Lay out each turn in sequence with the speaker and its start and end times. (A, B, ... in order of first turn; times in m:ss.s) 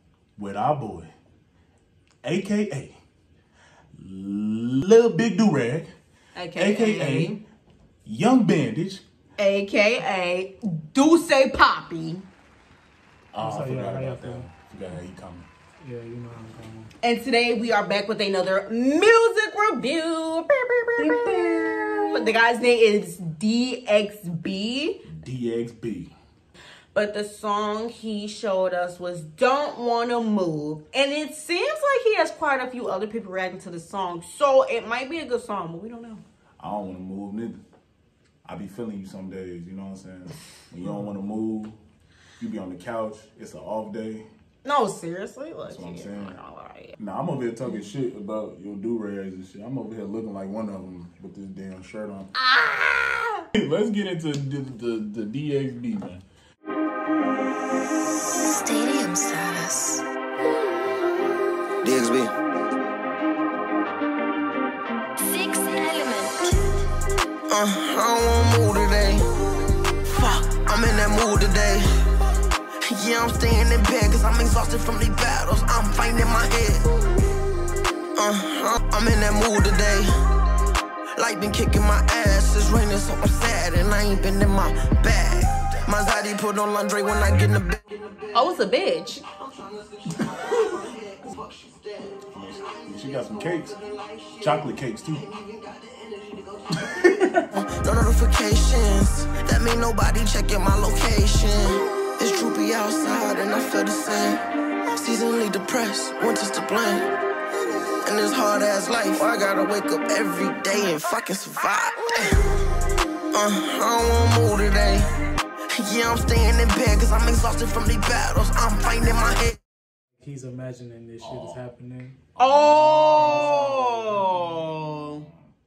0:00.4-0:01.1 A
0:02.2-0:03.0 A
0:04.0-0:05.9 A
0:06.4-0:07.4 B
0:06.6-0:07.4 A
0:08.0-0:09.0 A
0:09.4-0:12.2 B
0:13.3-0:15.5 A
0:13.4-0:14.5 C
0:15.8-0:16.9 C
0:17.0-0:25.0 B
0:25.1-0:26.1 A
0:26.9-0:36.2 B
0:36.6-0:37.6 A
0:38.4-0:41.8 A
0:40.8-0:41.1 C
0:42.4-0:44.3 A
0:44.6-0:47.0 B
0:45.6-0:46.4 A
0:47.0-0:52.3 A
0:52.4-0:53.4 B
0:53.5-0:56.2 A
0:58.5-1:00.0 D
1:01.8-1:02.3 E
1:05.2-1:06.6 D
1:07.5-1:09.3 E
1:10.0-1:12.0 E
1:12.8-1:16.9 E
1:18.2-1:20.1 E
1:21.2-1:27.8 E
1:28.3-1:29.2 B
1:32.3-1:33.8 A
1:34.4-1:35.3 A
1:36.8-1:37.4 A
1:37.5-1:44.4 E
1:45.0-1:47.1 E
1:48.0-1:52.5 E
1:53.3-1:55.1 E
1:55.7-1:59.6 E
2:00.2-2:02.2 C
2:01.2-2:01.6 A
2:02.3-2:04.0 A
2:02.4-2:05.3 B
2:03.1-2:04.5 C
2:04.7-2:05.5 A